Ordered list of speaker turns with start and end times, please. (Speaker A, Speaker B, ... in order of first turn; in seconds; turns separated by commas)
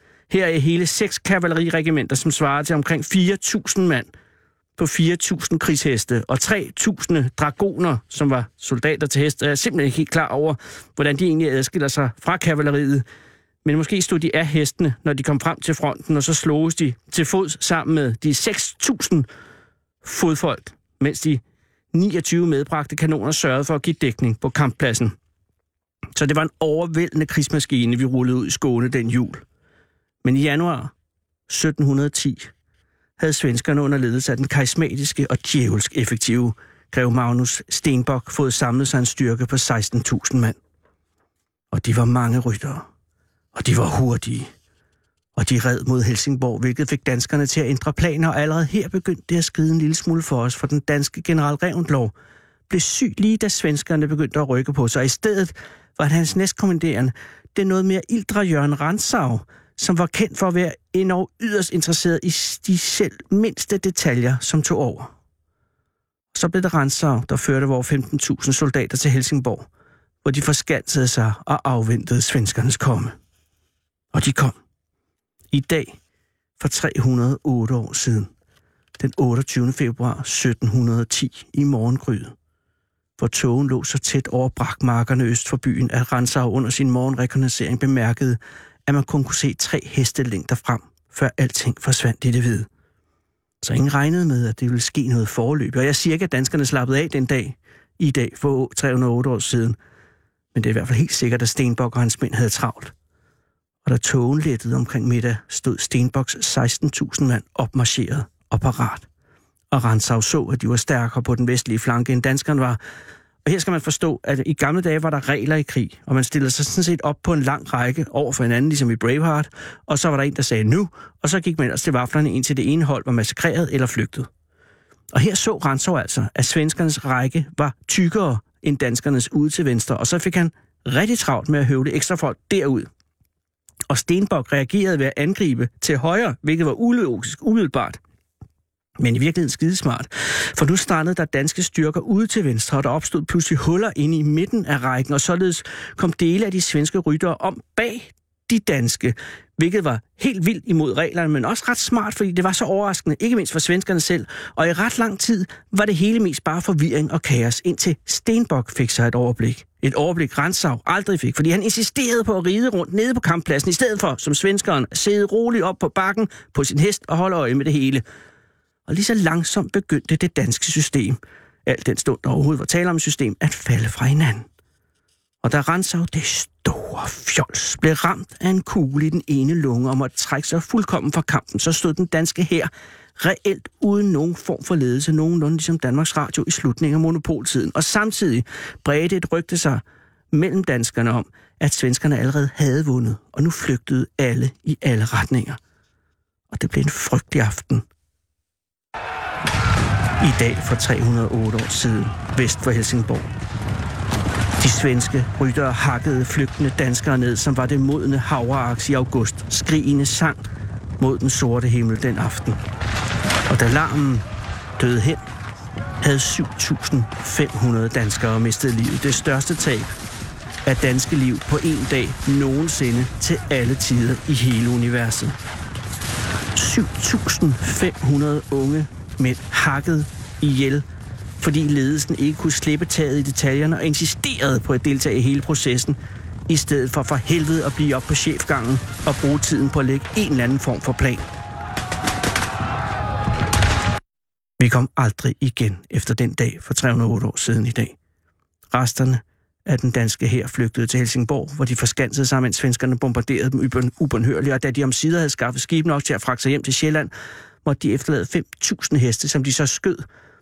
Speaker A: 0.3-4.1, Speaker A: 4.8-13.0, Speaker A: 13.6-19.3, Speaker A: 20.0-21.4, Speaker A: 21.9-25.1, Speaker A: 26.1-29.4, Speaker A: 30.2-30.9, Speaker A: 31.5-32.5, Speaker A: 33.2-40.6, Speaker A: 41.7-42.9, Speaker A: 43.5-44.5, Speaker A: 45.4-52.1, Speaker A: 52.7-65.1, Speaker A: 66.3-69.7, Speaker A: 70.2-73.1, Speaker A: 74.1-74.5, Speaker A: 75.5-76.0, Speaker A: 76.6-78.3, Speaker A: 79.0-82.3, Speaker A: 83.2-92.7, Speaker A: 93.6-99.8, Speaker A: 100.5-102.9, Speaker A: 103.8-109.0, Speaker A: 109.7-112.8, Speaker A: 113.4-124.3, Speaker A: 125.1-132.9, Speaker A: 133.9-138.0, Speaker A: 139.0-168.0, Speaker A: 168.9-174.4, Speaker A: 175.4-195.6, Speaker A: 196.5-197.8, Speaker A: 200.2-203.3, Speaker A: 204.6-210.4, Speaker A: 211.0-212.6, Speaker A: 213.5-214.2, Speaker A: 214.8-215.2, Speaker A: 216.0-219.9, Speaker A: 220.6-225.3, Speaker A: 226.5-230.8, Speaker A: 231.4-236.0, Speaker A: 236.5-241.2, Speaker A: 244.6-247.9, Speaker A: 248.7-257.1, Speaker A: 257.6-260.0